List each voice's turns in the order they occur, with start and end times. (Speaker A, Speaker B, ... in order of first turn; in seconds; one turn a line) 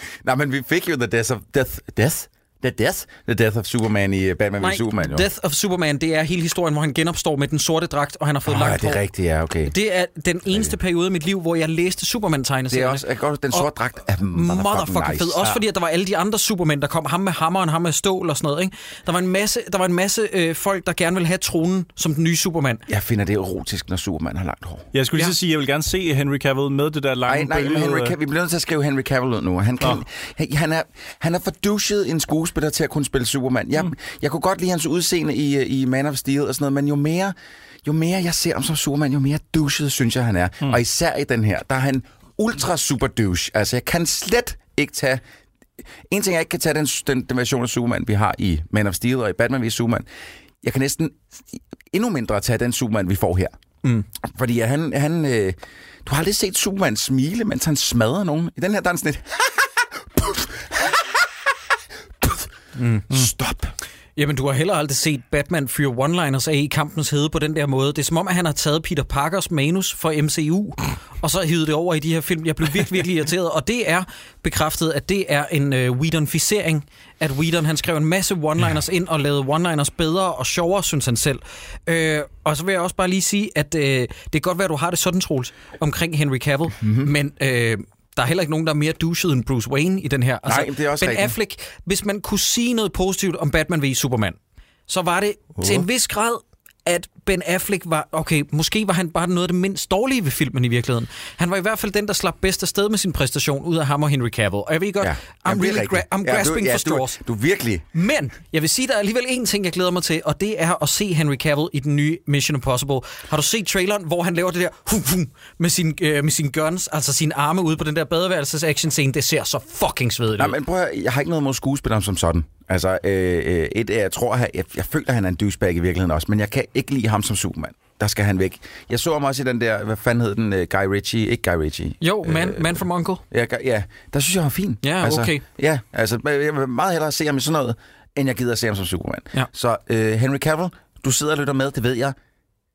Speaker A: 0.2-5.3
Speaker B: 4.6-9.0
Speaker A: 8.4-9.7
Speaker B: 9.7-13.7
Speaker A: 10.5-10.8
Speaker A: 12.7-15.5
Speaker B: 14.2-22.9
Speaker A: 22.9-24.9
Speaker C: 24.9-28.1
Speaker A: 27.2-45.2
Speaker A: 46.1-50.1
Speaker A: 50.6-53.5
Speaker A: 54.2-61.2
Speaker B: 62.8-63.1
Speaker A: 63.1-63.7
Speaker B: 64.2-94.4
Speaker A: 86.8-87.1
Speaker A: 90.5-91.3
Speaker B: 94.9-107.2
Speaker A: 95.6-95.9
Speaker A: 105.0-107.9
Speaker B: 107.9-120.5
Speaker A: 120.4-142.2
Speaker B: 132.0-133.2
Speaker B: 134.8-135.4